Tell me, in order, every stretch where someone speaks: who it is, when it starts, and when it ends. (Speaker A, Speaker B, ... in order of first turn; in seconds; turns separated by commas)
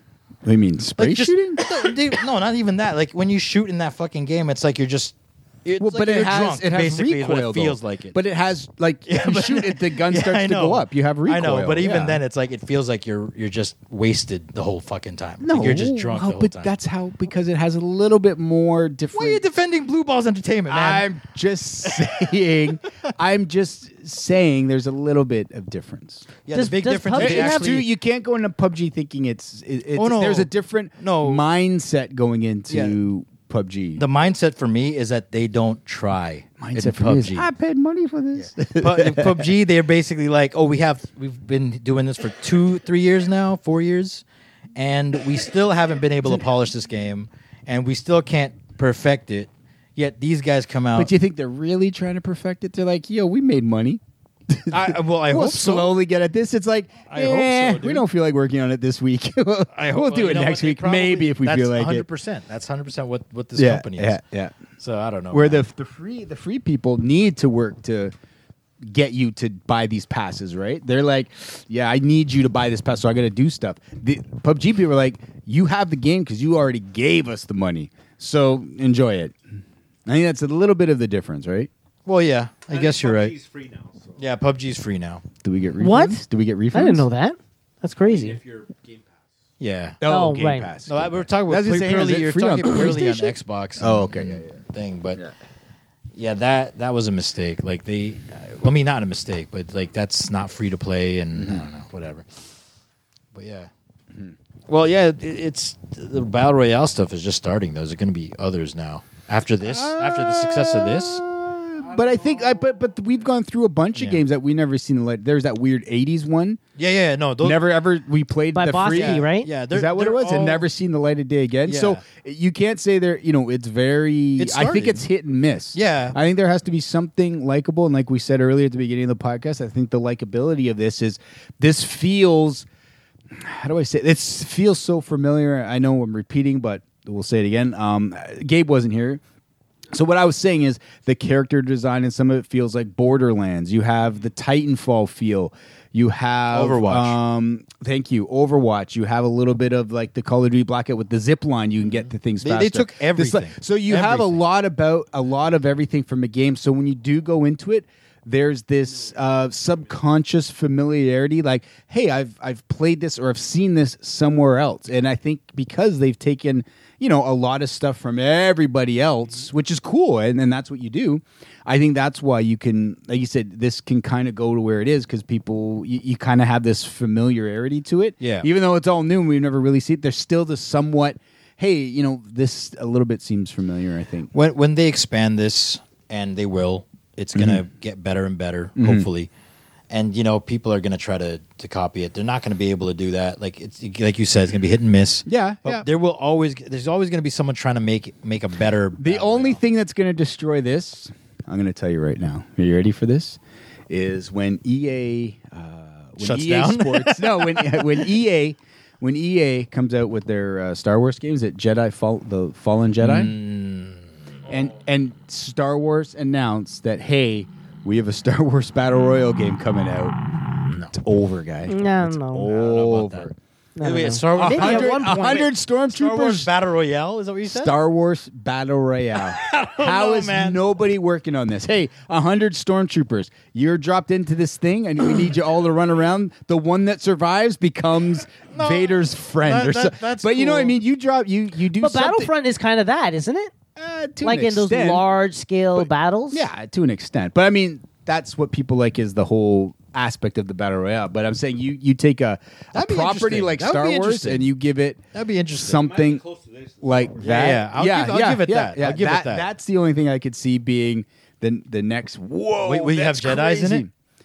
Speaker A: 0.5-2.0, Speaker B: 1.0-8.2, Speaker A: 5.8-12.2, Speaker B: 9.1-16.7, Speaker A: 15.4-19.4, Speaker B: 19.1-21.1, Speaker A: 20.7-26.3, Speaker B: 26.4-27.9, Speaker C: 26.5-27.8, Speaker A: 27.2-34.1, Speaker B: 29.9-31.4, Speaker B: 32.7-33.0, Speaker B: 34.0-37.5, Speaker A: 36.6-39.5, Speaker B: 38.4-44.2, Speaker B: 44.8-51.1, Speaker A: 51.0-62.1, Speaker B: 54.7-56.0, Speaker B: 57.1-58.0, Speaker B: 59.7-64.2, Speaker A: 63.6-64.6, Speaker B: 64.8-65.6, Speaker A: 65.3-68.1, Speaker A: 68.8-79.4, Speaker A: 80.1-81.7, Speaker B: 82.1-83.3, Speaker D: 82.7-84.2, Speaker B: 84.2-85.2, Speaker A: 85.4-87.1, Speaker C: 85.8-88.4, Speaker D: 88.0-89.3, Speaker B: 89.6-90.0, Speaker A: 90.0-94.5, Speaker C: 90.1-90.7, Speaker B: 90.8-95.2, Speaker B: 96.2-102.3, Speaker A: 101.4-101.7, Speaker B: 103.3-103.7, Speaker B: 104.7-111.2, Speaker A: 109.7-116.6, Speaker D: 111.9-112.6, Speaker B: 114.0-114.2, Speaker B: 116.8-117.7, Speaker A: 117.4-132.7, Speaker C: 118.5-119.5, Speaker B: 118.9-120.7, Speaker B: 121.7-122.0, Speaker B: 124.4-125.0, Speaker B: 125.7-126.2, Speaker A: 133.3-139.2, Speaker A: 139.9-184.3, Speaker B: 146.5-147.2, Speaker B: 152.4-154.3, Speaker B: 178.2-178.5, Speaker B: 184.3-189.3, Speaker A: 187.4-187.6, Speaker A: 188.8-189.1, Speaker B: 189.9-199.6, Speaker A: 195.3-195.9, Speaker A: 199.0-213.3, Speaker B: 206.2-207.9, Speaker B: 213.0-214.1, Speaker A: 214.5-220.2, Speaker B: 220.7-220.9, Speaker A: 220.9-223.3, Speaker C: 221.7-222.5, Speaker B: 222.4-227.7, Speaker C: 223.8-225.5, Speaker A: 224.3-226.5, Speaker A: 227.5-242.3, Speaker B: 229.2-230.6, Speaker B: 238.5-240.8, Speaker C: 241.8-243.5, Speaker A: 243.8-245.0, Speaker C: 244.2-246.4, Speaker A: 245.8-255.0, Speaker B: 252.7-254.5, Speaker B: 255.1-255.8, Speaker A: 255.6-256.2, Speaker D: 255.8-257.4, Speaker A: 256.8-263.9, Speaker B: 257.2-259.5, Speaker B: 262.6-263.9